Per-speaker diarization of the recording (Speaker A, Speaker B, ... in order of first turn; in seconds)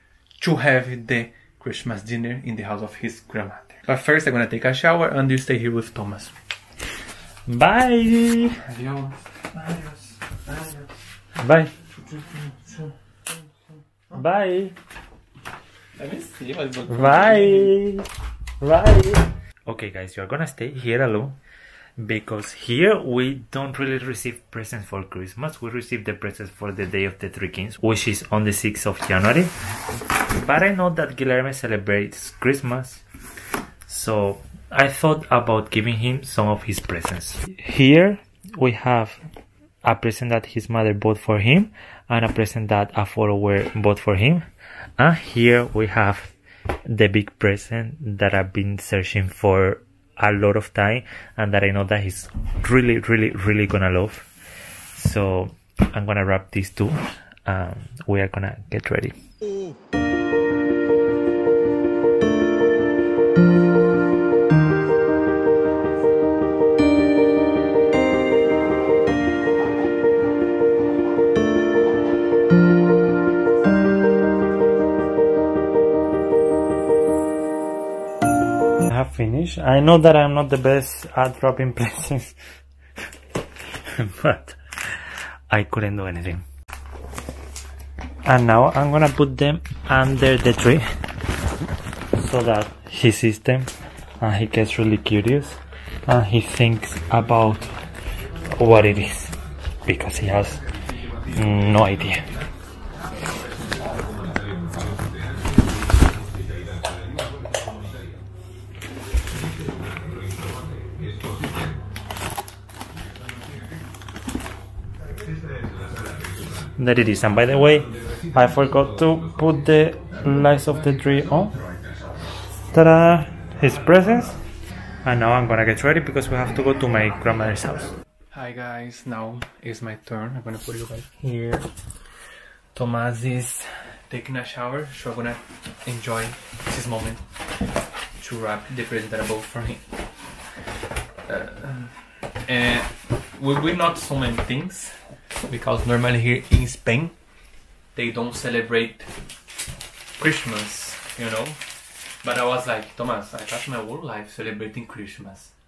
Speaker A: 0.4-6.3, 8.6-10.9, 12.1-12.9, 16.0-17.8, 128.3-131.7, 132.7-137.7, 138.2-139.8, 141.2-147.2, 147.9-149.1, 150.2-151.6, 152.2-155.5
Speaker B: 7.5-8.6, 11.4-11.7, 14.1-14.7, 16.9-18.1, 18.6-21.4, 22.0-29.5, 30.2-33.0, 33.9-39.2, 39.8-44.4, 45.0-46.3, 46.9-54.3, 54.9-59.1, 78.8-82.3, 83.6-86.4, 88.2-90.8, 92.1-97.7, 98.5-100.6, 101.3-102.2, 116.8-121.6, 122.7-124.4, 125.0-127.9